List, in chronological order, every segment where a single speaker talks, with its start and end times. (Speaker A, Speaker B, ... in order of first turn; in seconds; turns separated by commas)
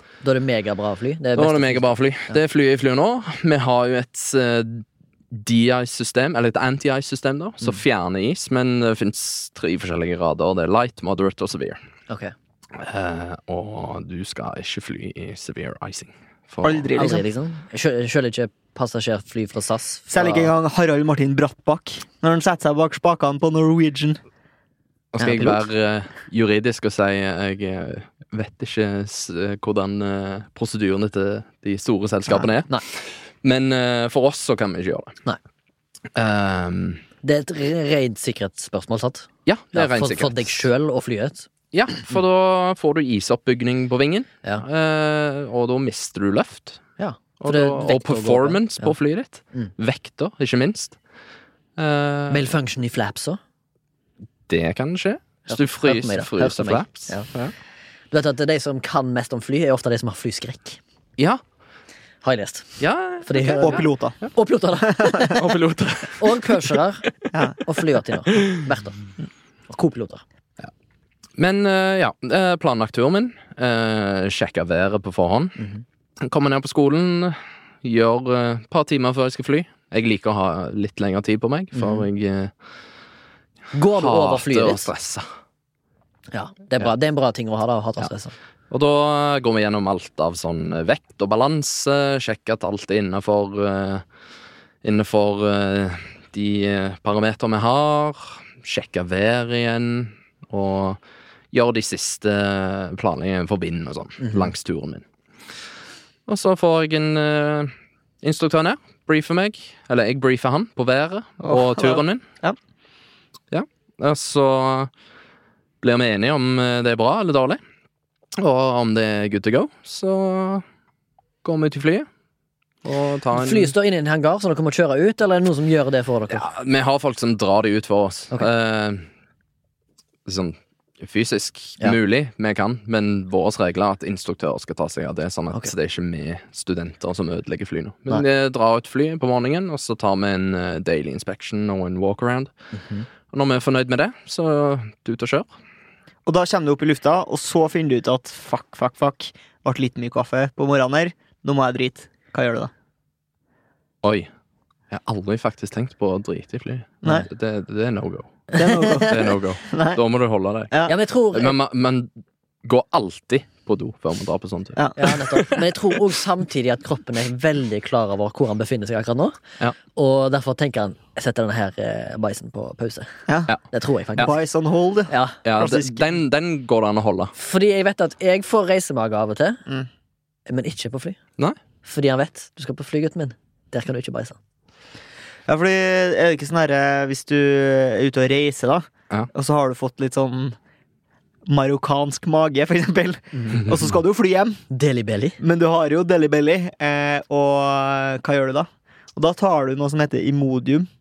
Speaker A: 0.2-2.3, Speaker B: 1.4-11.8, Speaker B: 12.8-16.9, Speaker C: 16.6-17.2, Speaker A: 16.9-20.5, Speaker C: 20.1-24.2, Speaker B: 25.1-35.2, Speaker A: 25.2-25.6, Speaker A: 32.3-32.8, Speaker B: 36.1-37.0, Speaker A: 37.2-41.5, Speaker B: 39.5-40.6, Speaker B: 41.7-46.8, Speaker A: 47.0-48.9, Speaker B: 47.4-51.0, Speaker B: 51.8-52.5, Speaker A: 52.3-53.4, Speaker B: 54.5-57.5, Speaker A: 55.5-57.3, Speaker A: 58.1-60.8, Speaker A: 62.2-65.4, Speaker B: 62.8-63.9, Speaker C: 63.6-64.2, Speaker B: 65.3-66.5, Speaker A: 66.2-69.0, Speaker A: 69.7-70.2, Speaker B: 71.4-75.6, Speaker B: 76.2-82.5, Speaker A: 81.7-82.0, Speaker A: 83.7-84.9, Speaker B: 84.0-85.2, Speaker A: 86.3-88.3, Speaker B: 88.7-94.0, Speaker B: 94.8-101.0, Speaker B: 101.5-105.0, Speaker A: 104.2-104.5, Speaker B: 106.3-112.2, Speaker C: 111.4-112.6, Speaker B: 113.5-114.9, Speaker B: 115.8-117.6, Speaker B: 118.4-120.6, Speaker B: 121.4-122.1, Speaker B: 122.8-123.7, Speaker A: 123.3-126.5, Speaker B: 126.3-129.0, Speaker B: 130.2-142.5, Speaker A: 142.7-143.0, Speaker B: 143.3-145.5, Speaker C: 146.2-152.7, Speaker B: 154.0-154.3, Speaker B: 154.9-158.5, Speaker A: 158.5-159.2, Speaker C: 158.6-160.0, Speaker B: 159.1-160.8, Speaker A: 160.9-161.6, Speaker B: 161.3-162.1, Speaker B: 162.6-165.9, Speaker A: 164.9-169.4, Speaker A: 169.9-173.1, Speaker A: 173.7-174.3, Speaker C: 174.2-176.2, Speaker A: 175.1-175.3, Speaker B: 175.4-177.3, Speaker A: 177.3-179.6, Speaker A: 180.5-181.2, Speaker A: 181.8-184.4, Speaker C: 185.5-190.6, Speaker C: 191.5-194.6, Speaker A: 193.3-193.6, Speaker A: 194.7-195.4, Speaker C: 195.4-200.9